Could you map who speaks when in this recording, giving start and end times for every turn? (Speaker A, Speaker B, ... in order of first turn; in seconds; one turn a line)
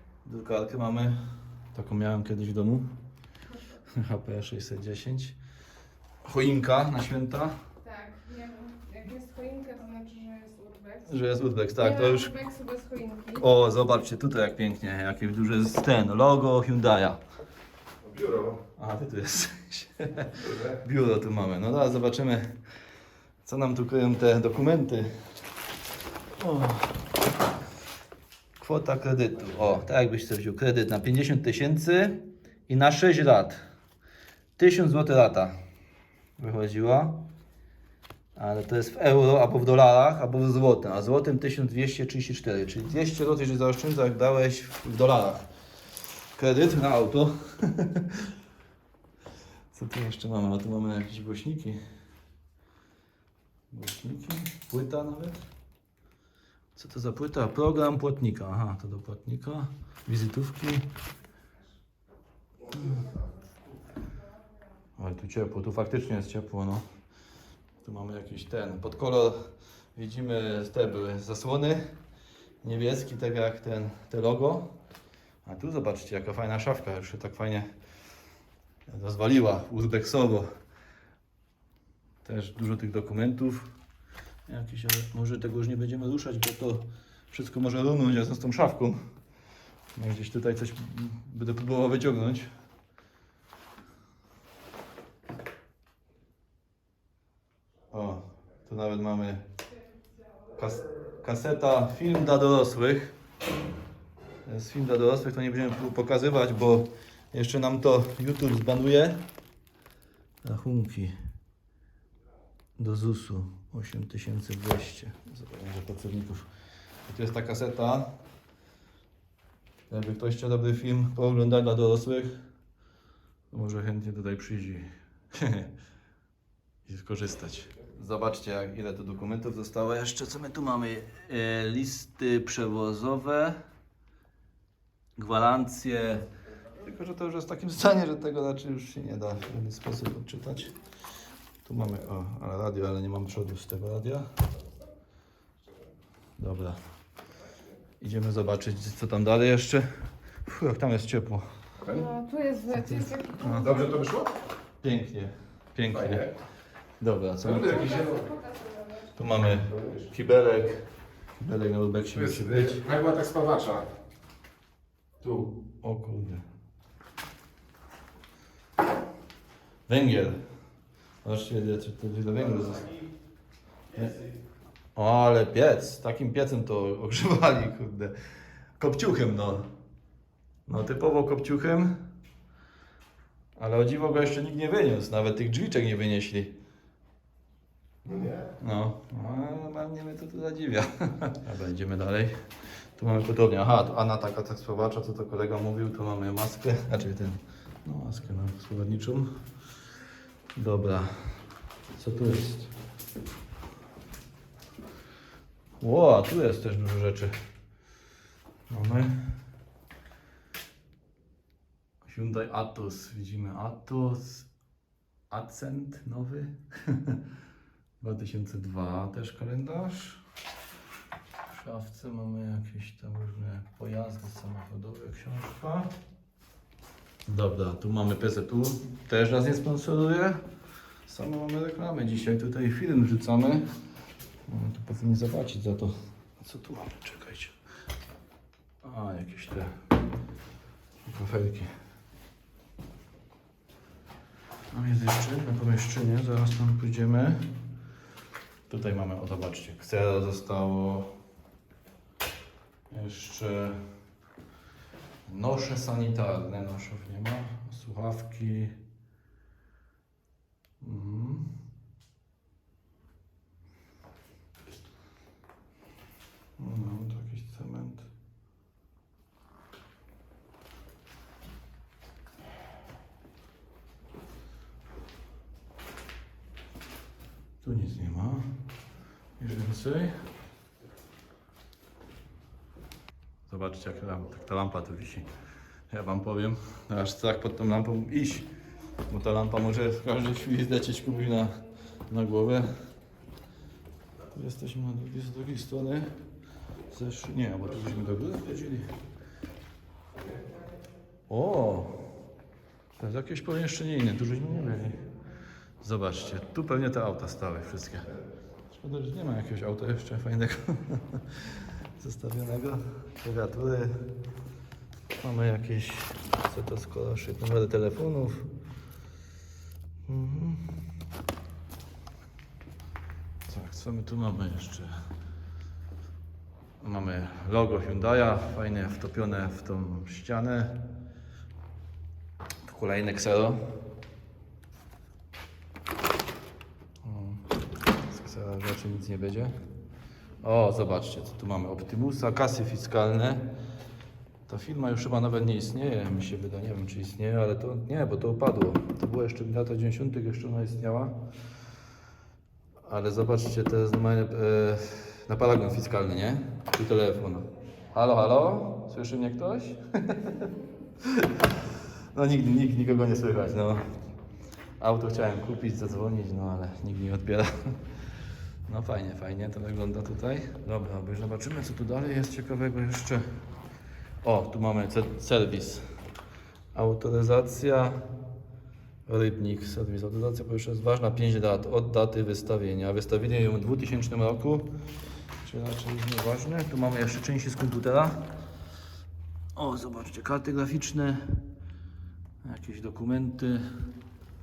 Speaker A: 0.2-1.2
Speaker A: 1.7-2.9
Speaker A: 3.9-5.4
Speaker A: 6.2-7.5
Speaker B: 7.8-11.0
Speaker A: 11.0-12.4
Speaker B: 12.1-13.3
Speaker A: 13.3-17.2
Speaker C: 18.0-18.6
Speaker A: 18.8-22.5
Speaker C: 20.4-20.7
Speaker A: 23.4-25.1
Speaker A: 26.4-27.0
Speaker A: 28.6-33.6
Speaker A: 34.6-35.5
Speaker A: 36.4-37.2
Speaker A: 38.4-45.5
Speaker A: 46.3-48.3
Speaker A: 49.7-51.8
Speaker A: 53.7-55.4
Speaker A: 56.7-60.9
Speaker A: 65.0-66.8
Speaker A: 67.8-71.8
Speaker A: 72.6-74.7
Speaker A: 75.4-77.6
Speaker A: 78.9-80.5
Speaker A: 82.2-83.7
Speaker A: 84.5-89.0
Speaker A: 89.9-92.5
Speaker A: 97.9-99.4
Speaker A: 100.5-103.1
Speaker A: 104.5-109.2
Speaker A: 110.4-111.1
Speaker A: 112.8-116.5
Speaker A: 117.1-118.1
Speaker A: 119.9-122.3
Speaker A: 123.5-125.7
Speaker A: 126.8-133.6
Speaker A: 135.2-136.2
Speaker A: 136.8-140.7
Speaker A: 141.6-144.3
Speaker A: 146.4-146.8
Speaker A: 148.0-149.8
Speaker A: 150.4-151.4
Speaker C: 151.8-152.1
Speaker B: 151.9-153.7
Speaker A: 152.7-153.7
Speaker C: 153.5-154.3
Speaker A: 154.8-156.3
Speaker C: 155.9-156.3
Speaker A: 157.0-158.1
Speaker C: 157.4-158.3
Speaker B: 158.1-158.9
Speaker A: 159.1-160.8
Speaker C: 159.7-160.0
Speaker A: 161.4-162.8
Speaker C: 162.2-163.8
Speaker A: 165.2-166.4
Speaker A: 169.9-170.4
Speaker A: 171.2-172.9
Speaker A: 174.9-178.1
Speaker A: 178.8-179.7
Speaker A: 180.7-181.9
Speaker A: 183.6-186.5
Speaker C: 188.0-188.5
Speaker A: 188.6-192.4
Speaker A: 192.9-199.3
Speaker A: 200.5-201.3
Speaker A: 201.9-202.7
Speaker A: 205.8-207.3
Speaker A: 208.7-209.2
Speaker A: 212.0-214.5
Speaker A: 215.3-217.2
Speaker A: 218.0-220.2
Speaker A: 221.5-225.9
Speaker A: 227.3-230.4
Speaker A: 231.1-233.7
Speaker A: 234.5-237.5
Speaker A: 238.8-239.7
Speaker A: 241.0-241.7
Speaker A: 244.7-247.4
Speaker A: 248.7-251.1
Speaker A: 252.9-253.8
Speaker A: 255.2-258.7
Speaker A: 260.8-261.5
Speaker A: 266.6-268.1
Speaker A: 277.6-278.5
Speaker A: 279.4-280.1
Speaker A: 283.5-285.3
Speaker A: 285.9-288.5
Speaker A: 289.1-291.5
Speaker A: 292.1-292.7
Speaker A: 294.3-296.1
Speaker A: 296.9-298.9
Speaker A: 301.3-302.0
Speaker A: 303.0-305.0
Speaker A: 305.8-308.1
Speaker A: 308.7-313.9
Speaker A: 315.2-318.5
Speaker A: 320.1-320.8
Speaker A: 323.5-325.0
Speaker A: 326.8-330.8
Speaker A: 332.6-333.6
Speaker A: 337.0-337.4
Speaker A: 338.0-339.5
Speaker A: 340.4-343.5
Speaker A: 344.5-351.1
Speaker A: 352.9-361.5
Speaker A: 362.1-363.9
Speaker A: 364.8-367.8
Speaker A: 368.6-373.2
Speaker A: 374.2-375.8
Speaker A: 376.7-378.0
Speaker A: 379.1-384.7
Speaker A: 385.4-388.2
Speaker A: 389.5-391.4
Speaker A: 392.4-393.7